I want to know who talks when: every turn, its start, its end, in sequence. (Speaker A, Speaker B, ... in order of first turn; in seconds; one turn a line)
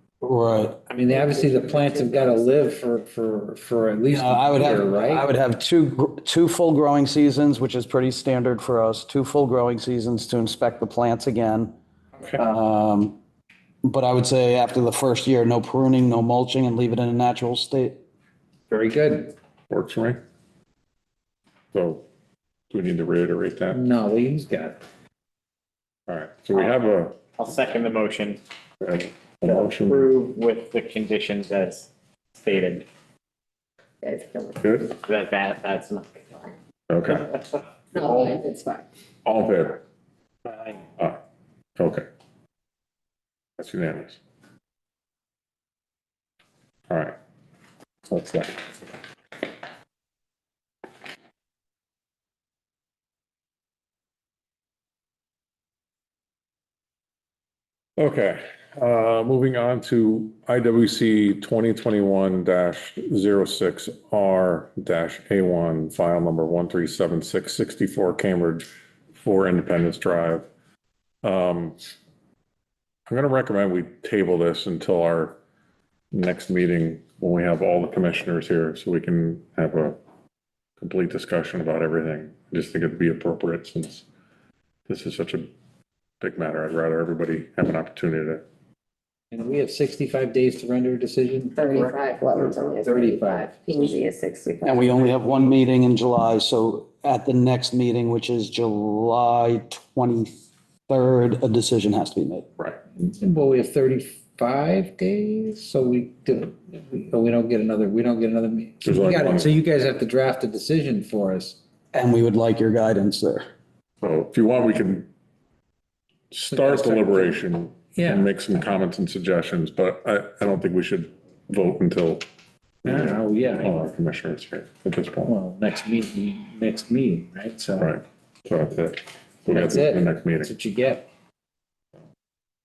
Speaker A: 0.2-0.8
Speaker B: 0.9-5.3
Speaker A: 4.1-11.7
Speaker A: 12.4-13.2
Speaker A: 13.8-18.0
Speaker B: 18.7-19.3
Speaker C: 19.7-20.2
Speaker C: 21.7-22.1
Speaker C: 22.7-23.8
Speaker B: 23.7-24.8
Speaker C: 26.1-27.2
Speaker D: 27.4-28.4
Speaker C: 28.8-30.1
Speaker D: 29.4-32.9
Speaker E: 34.0-34.6
Speaker C: 34.6-35.0
Speaker D: 34.9-36.2
Speaker C: 36.9-37.4
Speaker E: 37.9-38.9
Speaker C: 39.2-39.8
Speaker C: 41.8-42.1
Speaker C: 43.6-44.2
Speaker C: 46.9-47.2
Speaker C: 58.0-68.7
Speaker C: 69.2-70.5
Speaker C: 71.2-71.8
Speaker C: 73.1-75.4
Speaker C: 76.1-80.0
Speaker C: 80.8-84.0
Speaker C: 84.9-85.5
Speaker C: 86.2-88.4
Speaker B: 89.3-93.9
Speaker E: 91.6-95.0
Speaker A: 94.6-100.4
Speaker A: 100.9-102.5
Speaker B: 103.0-111.6
Speaker C: 108.8-109.5
Speaker A: 111.9-113.5
Speaker C: 114.0-115.1
Speaker C: 116.3-122.2
Speaker B: 116.5-117.4
Speaker B: 118.0-118.3
Speaker C: 122.8-125.3
Speaker B: 122.8-123.8
Speaker B: 125.3-128.0
Speaker C: 127.8-130.5
Speaker B: 129.5-131.0